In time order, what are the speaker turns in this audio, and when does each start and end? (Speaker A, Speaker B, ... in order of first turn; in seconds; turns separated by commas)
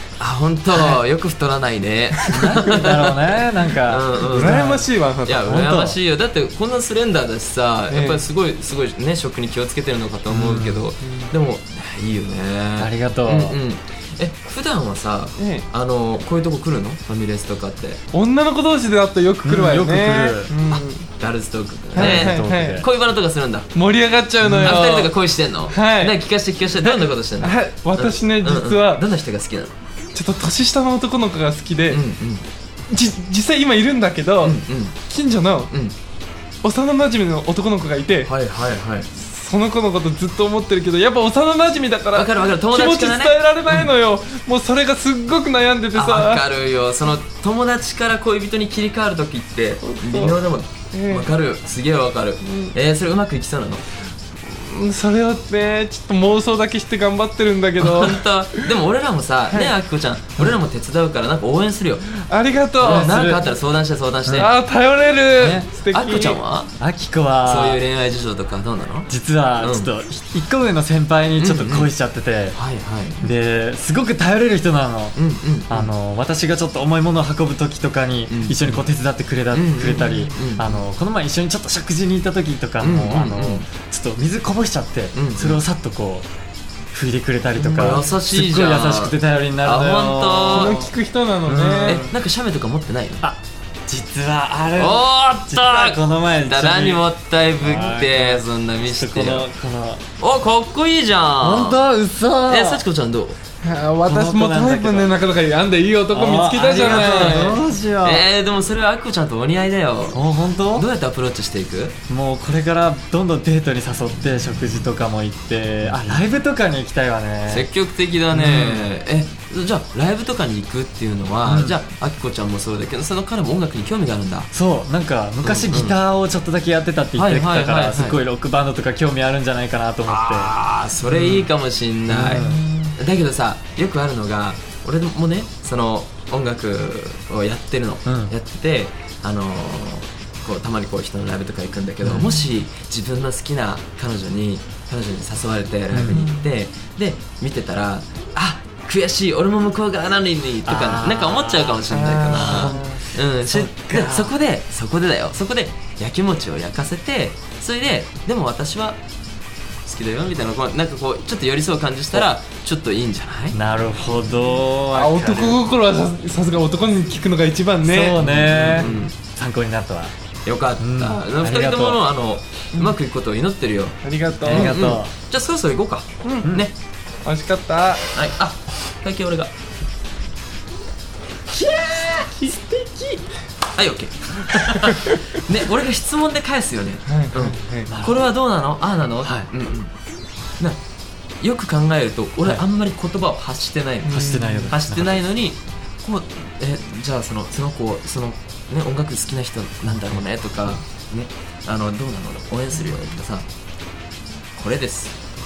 Speaker A: 0.2-3.1, Speaker B: 0.8-1.0, Speaker B: 2.3-6.0, Speaker A: 3.8-4.6, Speaker C: 4.3-5.4, Speaker A: 5.2-18.0, Speaker C: 7.9-8.3, Speaker C: 10.3-11.3, Speaker B: 12.8-13.6, Speaker C: 15.3-15.7, Speaker C: 18.1-21.1, Speaker B: 19.4-20.5, Speaker A: 20.7-23.7, Speaker C: 21.9-22.9, Speaker B: 21.9-22.9, Speaker C: 23.7-25.1, Speaker A: 24.5-29.7, Speaker B: 24.5-24.8, Speaker C: 25.7-26.1, Speaker C: 26.8-29.0, Speaker C: 30.1-32.0, Speaker A: 31.9-32.5, Speaker C: 32.9-35.7, Speaker A: 34.4-35.0, Speaker A: 35.7-36.0, Speaker C: 36.6-38.3, Speaker A: 38.2-39.1, Speaker C: 39.1-46.4, Speaker A: 42.1-43.9, Speaker A: 45.9-53.8, Speaker C: 49.8-51.3, Speaker C: 52.4-52.7, Speaker C: 54.4-58.7, Speaker A: 57.8-62.0, Speaker C: 59.5-59.7, Speaker C: 62.1-63.1, Speaker A: 62.8-64.5, Speaker B: 62.8-63.5, Speaker C: 64.3-66.4, Speaker B: 65.3-65.7, Speaker A: 65.9-66.7, Speaker B: 66.8-67.8, Speaker A: 67.4-69.9, Speaker B: 69.1-72.6, Speaker A: 71.4-71.9, Speaker A: 72.5-73.2, Speaker B: 73.2-75.2, Speaker A: 75.1-75.9, Speaker B: 75.7-86.2, Speaker A: 78.3-78.8, Speaker A: 79.5-80.8, Speaker A: 82.8-83.7, Speaker A: 85.1-85.6, Speaker B: 86.9-90.9, Speaker A: 87.5-90.8, Speaker C: 90.5-92.0, Speaker A: 91.5-93.2, Speaker B: 91.7-92.1, Speaker B: 93.2-97.0, Speaker A: 94.7-99.5, Speaker B: 97.6-100.0, Speaker A: 100.2-101.8, Speaker B: 101.4-102.8, Speaker A: 102.5-103.4, Speaker C: 103.6-107.6, Speaker B: 104.0-105.2, Speaker B: 106.1-108.2, Speaker A: 106.7-112.0, Speaker B: 110.1-110.9, Speaker B: 112.1-117.7, Speaker A: 117.5-124.5, Speaker B: 118.3-118.8, Speaker B: 121.4-121.8, Speaker B: 124.5-130.5, Speaker A: 125.4-126.0, Speaker A: 127.2-128.2, Speaker A: 130.1-159.0, Speaker B: 131.1-131.5, Speaker B: 132.1-132.9, Speaker B: 138.1-138.3, Speaker B: 142.0-142.4, Speaker B: 145.9-146.5, Speaker B: 150.6-154.3, Speaker A: 159.8-163.6, Speaker B: 163.5-165.6, Speaker C: 164.9-168.2, Speaker B: 167.8-170.1, Speaker A: 168.2-169.1, Speaker A: 170.4-176.7, Speaker B: 170.8-172.0, Speaker C: 174.0-174.8, Speaker B: 174.4-175.1, Speaker C: 176.2-176.5, Speaker C: 177.2-178.2, Speaker A: 178.1-179.5, Speaker C: 181.5-183.2, Speaker A: 183.7-189.9, Speaker C: 184.8-185.1, Speaker C: 187.1-187.9, Speaker B: 187.9-188.2, Speaker B: 189.2-189.5, Speaker A: 191.4-203.4, Speaker C: 194.1-194.7, Speaker B: 194.1-195.2, Speaker A: 204.5-205.1